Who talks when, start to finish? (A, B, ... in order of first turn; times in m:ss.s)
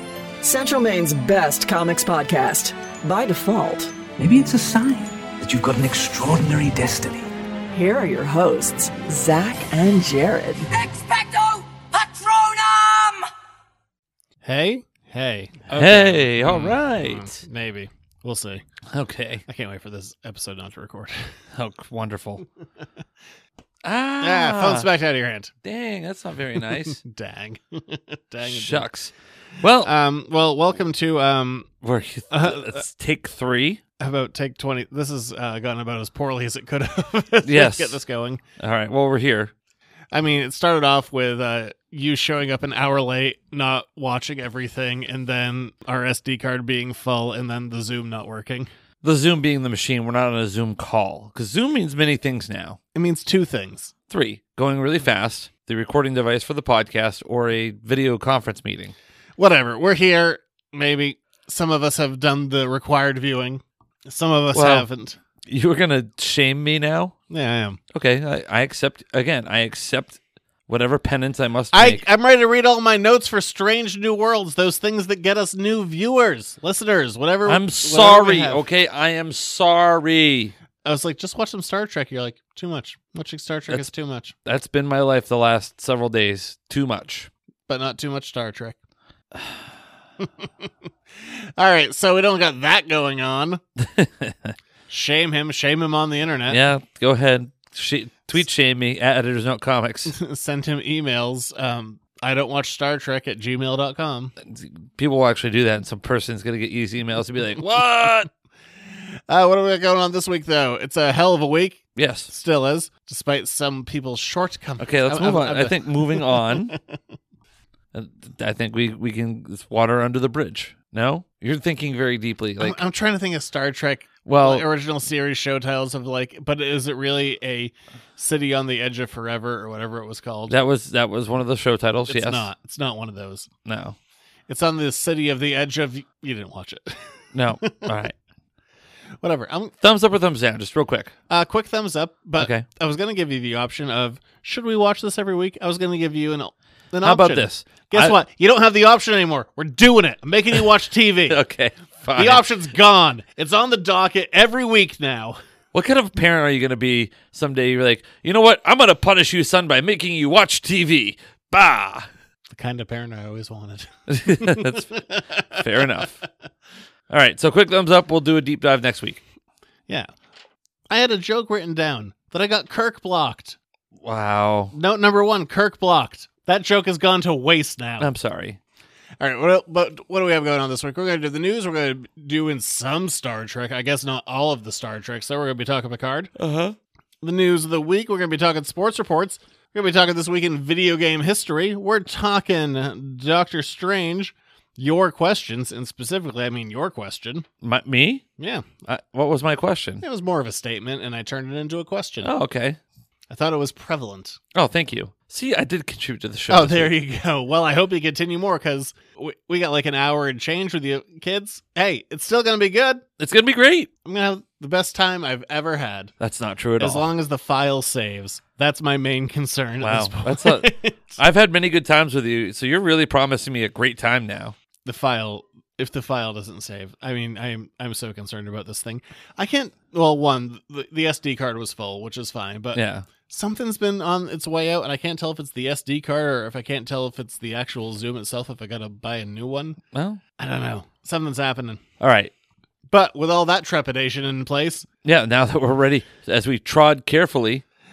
0:00.4-0:03.9 A
0:04.2-0:07.3 B
0:07.7-0:10.7 A
0:10.7-0:13.3 C
0:14.4-0:18.6 D
0:15.7-0:17.4 E
0:18.9-0:19.4 E
0:19.5-0:21.2 D
0:21.5-0:22.4 E
0:23.8-0:24.9 E
0:24.2-0:25.5 D
0:25.6-0:27.0 E
0:26.8-0:28.9 D
0:28.4-0:29.9 E
0:29.8-0:31.7 D
0:31.8-0:33.8 E
0:32.3-0:32.8 D
0:34.0-0:38.4 D
0:37.4-0:38.0 E
0:38.6-0:39.5 E
0:40.1-0:48.7 D
0:49.0-0:52.8 E
0:52.9-0:53.9 D
0:54.1-0:58.9 E
0:59.4-1:05.2 D
1:04.5-1:04.8 E
1:05.5-1:07.1 E
1:07.3-1:07.8 D
1:07.9-1:12.0 E
1:11.7-1:18.6 D
1:17.4-1:20.5 E
1:20.8-1:24.3 D
1:24.4-1:27.3 E
1:27.7-1:28.8 D
1:29.3-1:29.6 E
1:30.2-1:30.7 D
1:31.2-1:33.6 D
1:33.8-1:34.6 E
1:34.9-1:36.6 D
1:36.5-1:40.1 E
1:40.1-1:44.3 D
1:44.4-1:48.3 E
1:47.7-1:48.1 D
1:49.3-1:57.0 D
1:52.0-1:52.3 E
1:54.8-1:56.7 E
1:57.9-2:02.8 E
2:02.6-2:10.6 D
2:04.2-2:04.7 E
2:10.5-2:12.5 E
2:12.1-2:13.5 D
2:13.6-2:14.0 E
2:14.5-2:17.0 D
2:17.3-2:18.1 E
2:17.6-2:17.9 D
2:19.2-2:19.7 D
2:19.8-2:21.1 E
2:21.3-2:31.4 D
2:22.4-2:22.6 E
2:27.0-2:28.2 E
2:31.3-2:32.4 E
2:32.2-2:35.4 D
2:35.7-2:42.1 E
2:42.5-2:46.1 D
2:44.1-2:45.0 E
2:45.5-2:46.2 E
2:47.1-2:49.2 E
2:50.9-2:53.6 D
2:54.0-2:54.7 E
2:54.7-2:58.1 D
2:58.0-2:58.6 E
2:59.2-3:06.3 D
3:06.4-3:06.8 E
3:07.2-3:17.4 D
3:17.6-3:18.2 E
3:18.4-3:18.7 D
3:18.8-3:20.0 E
3:20.0-3:22.3 D
3:22.2-3:22.8 E
3:23.3-3:24.4 D
3:24.5-3:26.9 E
3:26.5-3:33.0 D
3:33.2-3:33.9 E
3:34.0-3:36.1 D
3:36.2-3:37.1 E
3:36.8-3:41.2 D
3:39.8-3:44.5 E
3:44.8-3:59.8 D
3:52.7-3:53.0 E
3:59.9-4:00.2 E
4:00.4-4:01.8 D
4:02.0-4:02.3 E
4:02.9-4:04.8 D
4:05.0-4:07.6 E